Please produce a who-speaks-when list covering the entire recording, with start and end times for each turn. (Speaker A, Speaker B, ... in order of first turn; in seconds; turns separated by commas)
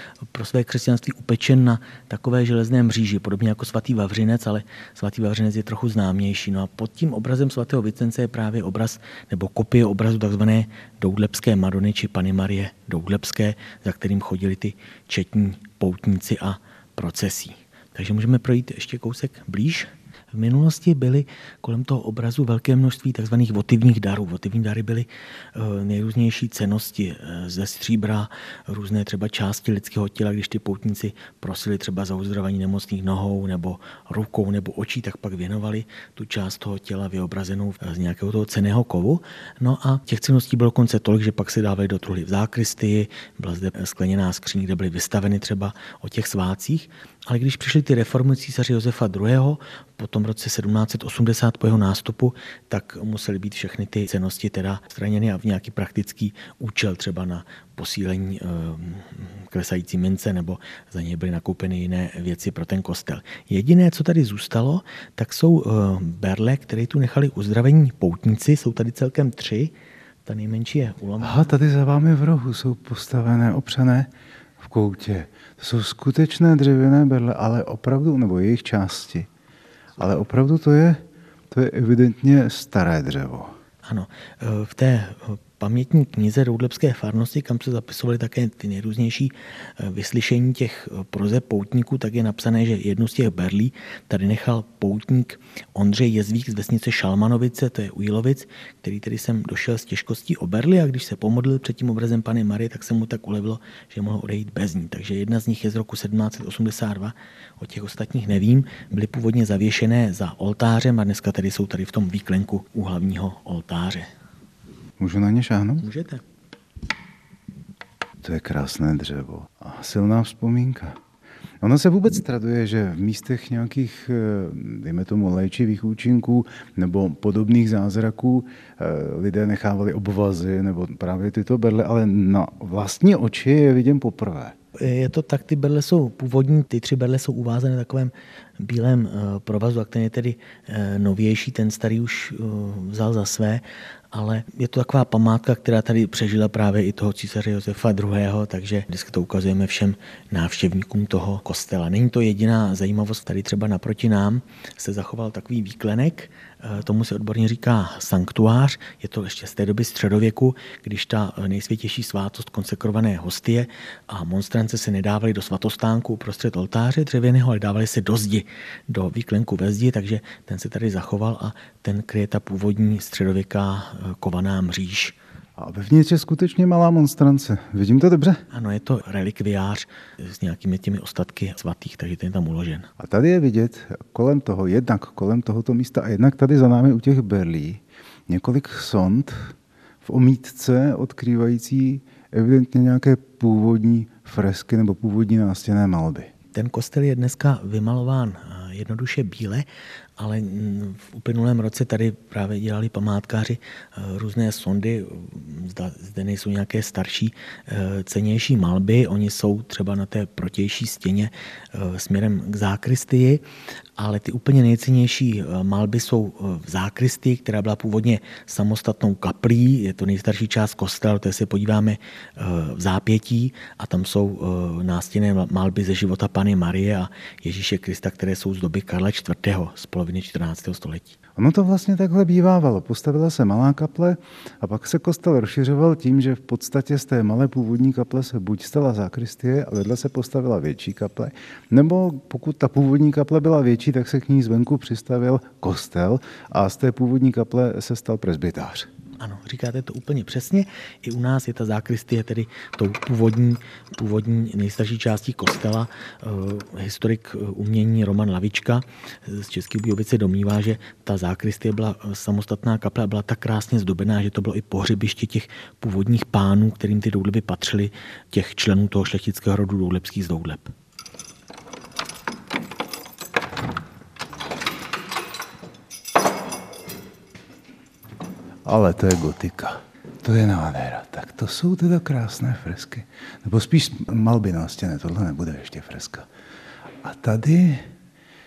Speaker A: 0.3-69.7, Speaker A: 70.2-71.5, Speaker B: 71.2-79.3, Speaker B: 80.0-83.5, Speaker A: 83.8-114.1, Speaker B: 115.0-115.9, Speaker A: 115.8-116.2, Speaker B: 118.2-121.0, Speaker B: 121.6-134.6, Speaker A: 134.8-175.2, Speaker B: 175.6-178.4, Speaker A: 178.5-182.9, Speaker B: 183.0-196.3, Speaker A: 196.5-199.7, Speaker A: 200.2-213.4, Speaker A: 214.0-231.2, Speaker B: 231.3-248.9, Speaker A: 249.2-270.7, Speaker B: 278.6-286.3, Speaker B: 287.0-287.9